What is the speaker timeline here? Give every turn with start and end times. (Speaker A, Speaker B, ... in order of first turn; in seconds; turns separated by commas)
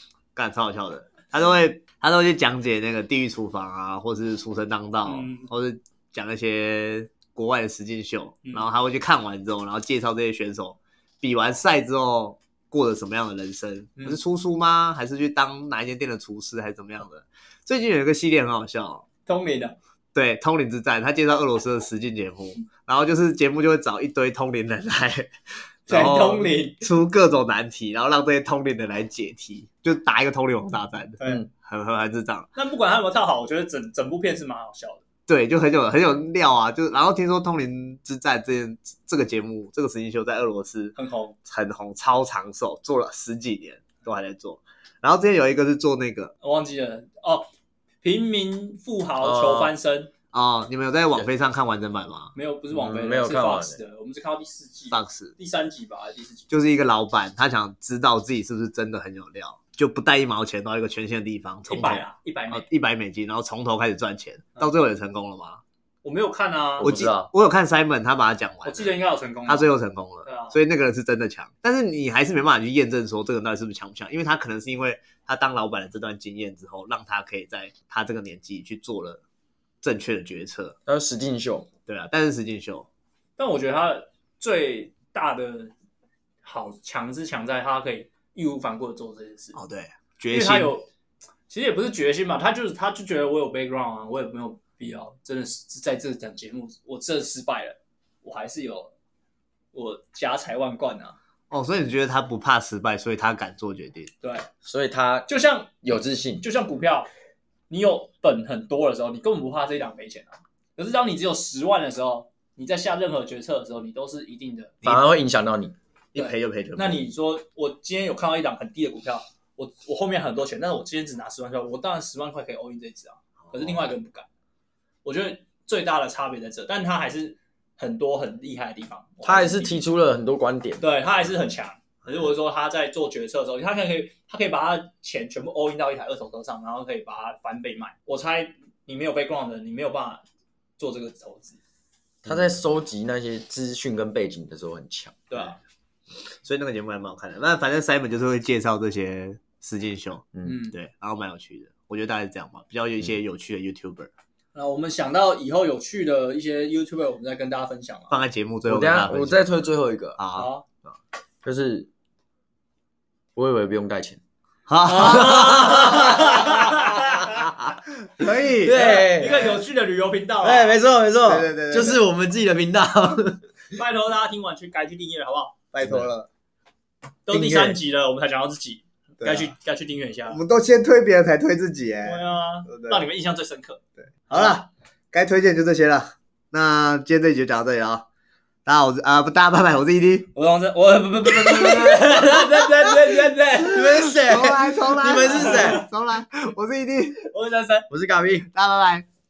Speaker A: 0.3-19.1, Speaker B: 5.0-5.5, Speaker B: 19.2-19.8, Speaker A: 20.1-25.3, Speaker A: 25.9-32.5, Speaker B: 25.9-26.9, Speaker B: 31.2-31.4, Speaker B: 32.5-35.0, Speaker A: 35.3-46.3, Speaker B: 41.0-41.4, Speaker B: 46.4-47.5, Speaker B: 48.0-50.1, Speaker C: 49.2-49.7, Speaker A: 50.3-52.3, Speaker B: 52.3-56.5, Speaker C: 52.7-53.8, Speaker A: 54.9-55.3, Speaker A: 56.5-65.6, Speaker B: 61.7-62.7, Speaker B: 66.0-66.9, Speaker C: 66.8-67.3, Speaker A: 66.8-79.2, Speaker B: 68.6-69.7, Speaker B: 70.2-70.5, Speaker A: 79.8-80.8, Speaker C: 80.8-81.7, Speaker A: 81.8-82.9, Speaker B: 83.4-85.7, Speaker B: 86.4-89.6, Speaker A: 89.5-90.7, Speaker B: 90.3-90.9, Speaker B: 91.5-98.9, Speaker B: 99.7-101.2, Speaker A: 101.5-104.1, Speaker B: 104.2-104.5, Speaker C: 104.6-105.3, Speaker B: 105.3-105.8, Speaker C: 105.8-106.4, Speaker B: 106.4-107.1, Speaker B: 107.7-114.8, Speaker C: 114.8-115.7, Speaker A: 116.1-117.1, Speaker B: 116.2-124.3, Speaker A: 123.5-123.8, Speaker B: 125.0-129.8, Speaker C: 129.2-130.8, Speaker B: 130.8-140.2, Speaker B: 140.8-141.6, Speaker C: 142.2-145.4, Speaker B: 145.3-145.6, Speaker A: 146.2-154.1, Speaker B: 150.4-150.8, Speaker B: 154.5-158.2, Speaker A: 158.1-159.4, Speaker C: 158.7-160.2, Speaker A: 160.2-160.9, Speaker B: 160.3-160.6, Speaker C: 161.4-161.9, Speaker C: 163.3-164.2, Speaker A: 164.7-166.4, Speaker B: 164.8-167.4, Speaker C: 165.1-167.4, Speaker A: 167.6-169.3, Speaker C: 168.5-169.6, Speaker B: 168.7-170.8, Speaker C: 170.4-173.4, Speaker A: 171.2-172.0, Speaker B: 173.7-175.6, Speaker A: 175.7-176.3, Speaker C: 175.8-176.1, Speaker B: 177.2-180.4, Speaker A: 177.3-177.8, Speaker A: 179.2-179.5, Speaker A: 180.3-183.1, Speaker B: 182.0-183.8, Speaker A: 184.0-188.1, Speaker A: 188.6-190.3, Speaker B: 190.3-194.0, Speaker C: 193.6-195.8, Speaker A: 193.7-197.2, Speaker B: 195.3-195.8, Speaker B: 197.2-197.8, Speaker C: 197.9-198.5, Speaker A: 198.5-199.1